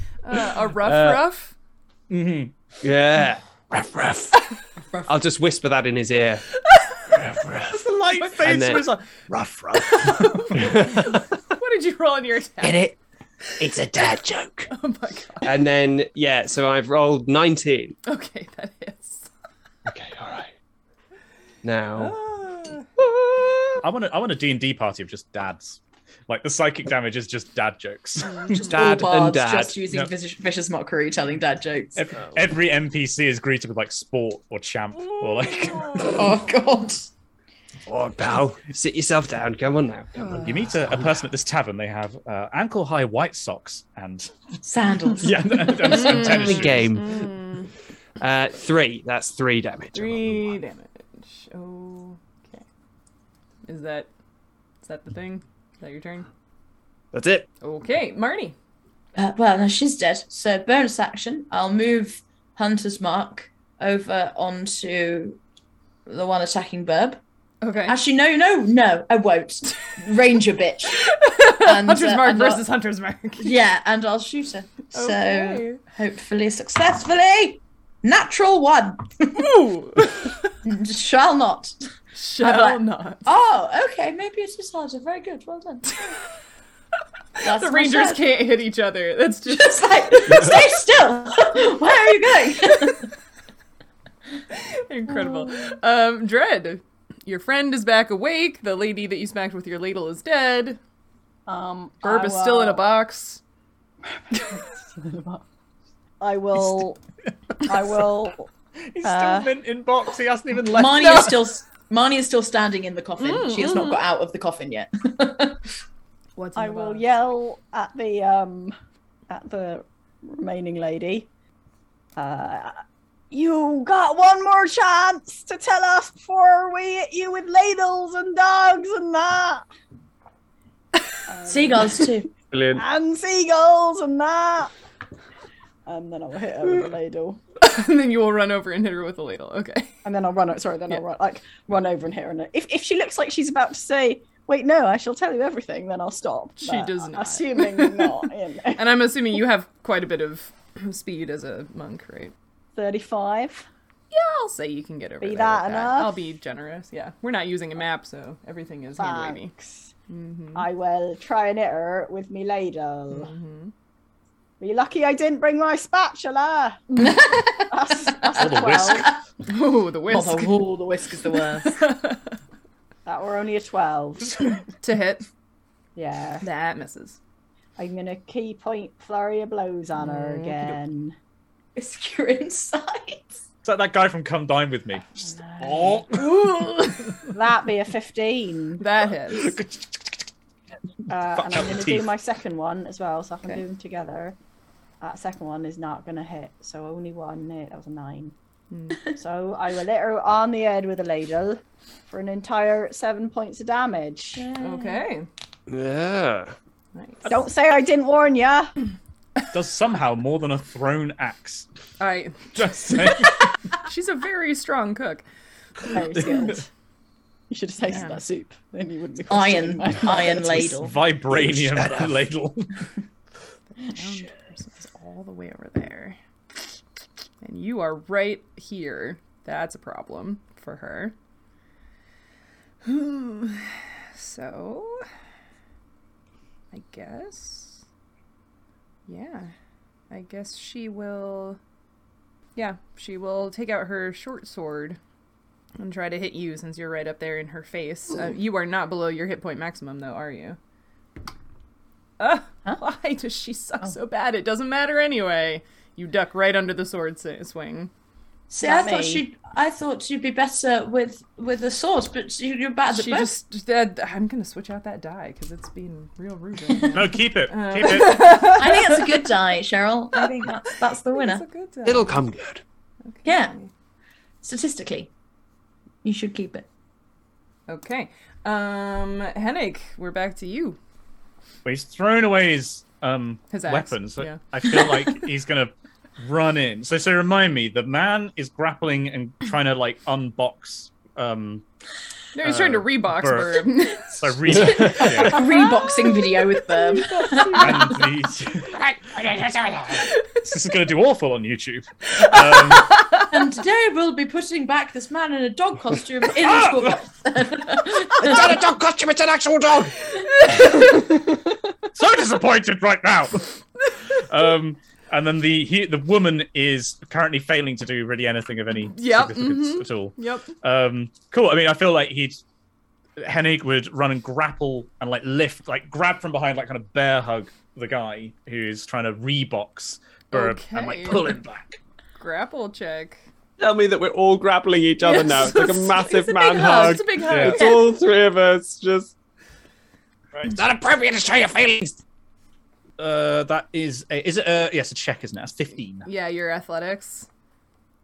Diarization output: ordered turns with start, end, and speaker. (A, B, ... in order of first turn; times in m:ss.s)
0:00.2-0:01.5 A
0:00.8-0:01.2 B
0:02.1-0:02.5 C
0:02.8-0:04.4 B
0:05.0-0:06.4 B
0:06.7-0:07.1 A
0:07.1-0:07.8 B
0:07.7-0:11.2 C
0:08.4-0:08.8 B
0:10.0-0:12.8 A
0:10.5-0:11.0 B
0:12.6-0:13.0 B
0:13.6-0:14.7 B
0:14.7-0:15.5 A
0:15.4-0:18.0 B
0:18.0-0:19.3 A
0:19.8-0:20.5 B
0:21.6-0:22.1 B
0:22.0-0:22.9 A
0:23.0-0:23.8 B
0:23.8-0:28.6 C
0:28.2-0:28.8 A
0:28.5-0:32.0 D
0:28.6-0:29.8 B
0:32.0-0:36.2 C
0:35.2-0:36.2 A
0:36.0-0:37.1 D
0:37.8-0:41.0 B
0:40.2-0:40.7 A
0:40.3-0:44.3 C
0:44.6-0:46.6 D
0:45.2-0:46.9 C
0:45.9-0:47.7 A
0:45.9-0:47.3 B
0:48.2-0:50.5 B
0:49.9-0:52.6 A
0:53.6-0:54.1 A
0:54.8-0:56.3 A
0:57.1-0:57.5 B
0:57.6-0:58.5 A
0:59.2-1:05.4 D
1:06.0-1:07.2 D
1:07.6-1:08.0 A
1:07.8-1:11.0 D
1:10.9-1:13.5 A
1:11.6-1:12.6 D
1:13.4-1:19.5 D
1:14.9-1:15.8 A
1:19.3-1:20.6 A
1:20.6-1:21.8 D
1:22.1-1:23.3 A
1:22.4-1:26.0 D
1:25.9-1:26.2 A
1:27.4-1:30.5 A
1:27.4-1:28.3 D
1:29.5-1:33.1 D
1:30.3-1:30.6 B
1:34.5-1:40.8 A
1:41.5-1:42.8 E
1:42.0-1:43.4 A
1:44.1-1:45.4 E
1:44.3-1:44.6 A
1:46.2-1:47.0 E
1:47.6-1:48.5 E
1:48.8-1:51.3 C
1:49.0-1:49.5 E
1:50.7-1:55.6 D
1:51.0-1:51.3 A
1:53.2-1:54.0 A
1:56.4-1:57.1 A
1:56.6-1:58.7 E
1:59.3-2:01.3 E
2:02.2-2:02.8 E
2:03.3-2:09.6 E
2:11.3-2:12.1 E
2:11.5-2:12.3 D
2:12.5-2:12.8 B
2:12.7-2:14.7 E
2:15.8-2:17.4 E
2:17.6-2:19.9 A
2:20.0-2:28.8 E
2:26.6-2:32.3 A
2:32.7-2:33.7 E
2:34.1-2:39.5 A
2:35.2-2:36.1 E
2:39.0-2:39.9 E
2:40.1-2:40.7 A
2:40.5-2:43.3 E
2:43.1-2:43.7 A
2:44.6-2:47.0 E
2:46.9-2:47.2 A
2:47.0-2:49.2 D
2:47.7-2:49.1 E
2:48.3-2:49.1 C
2:49.4-2:50.7 A
2:50.1-2:51.8 D
2:51.6-2:52.4 A
2:53.0-2:54.6 E
2:54.8-2:55.2 A
2:55.9-2:56.4 E
2:56.4-2:57.2 A
2:57.8-3:01.1 E
3:00.0-3:00.7 A
3:01.8-3:03.4 D
3:03.6-3:06.4 C
3:05.4-3:05.7 E
3:06.1-3:07.1 A
3:07.3-3:08.8 E
3:08.8-3:09.6 A
3:09.3-3:10.1 C
3:11.1-3:14.4 E
3:11.3-3:12.1 C
3:15.0-3:18.3 E
3:18.7-3:19.0 A
3:19.1-3:24.5 E
3:24.4-3:25.0 D
3:24.6-3:25.3 A
3:25.7-3:26.5 B
3:26.9-3:27.3 A
3:27.2-3:28.7 E
3:29.5-3:31.6 C
3:32.0-3:33.2 A
3:32.5-3:33.5 C
3:33.8-3:35.2 A
3:35.8-3:36.6 E
3:37.5-3:40.7 E
3:37.9-3:38.2 A
3:39.3-3:41.0 D
3:40.8-3:42.8 C
3:41.3-3:42.2 B
3:43.7-3:46.2 A
3:47.4-3:51.1 A
3:52.8-3:55.0 A
3:56.7-3:57.8 A
3:59.1-3:59.5 A
4:00.1-4:01.6 A
4:02.6-4:05.0 A
4:05.8-4:10.6 A
4:12.2-4:17.9 A
4:18.5-4:23.4 D
4:18.6-4:19.2 E
4:22.9-4:29.3 A
4:26.9-4:28.2 C
4:28.3-4:31.4 D
4:30.2-4:32.2 A
4:31.8-4:32.6 B
4:33.0-4:33.7 A
4:33.2-4:33.5 D
4:34.4-4:35.1 D
4:36.0-4:36.6 D
4:37.7-4:40.8 A
4:41.6-4:51.6 C
4:43.5-4:45.1 A
4:52.3-4:58.0 A
4:52.4-4:55.4 C
4:54.6-4:58.0 D
4:57.6-4:58.8 C
4:58.7-5:00.0 B
4:59.9-5:00.4 A
5:00.4-5:03.0 C
5:02.1-5:03.4 A
5:03.2-5:08.6 D
5:06.4-5:07.0 C
5:08.2-5:10.0 B
5:10.1-5:11.1 A
5:11.9-5:13.6 C
5:14.1-5:22.4 C
5:18.8-5:20.5 A
5:23.2-5:31.8 C
5:30.3-5:31.3 A
5:31.1-5:31.4 B
5:32.2-5:33.2 A
5:33.6-5:39.1 B
5:35.0-5:37.9 A
5:37.2-5:37.6 C
5:40.4-5:42.0 B
5:43.0-5:46.1 C
5:46.0-5:47.3 A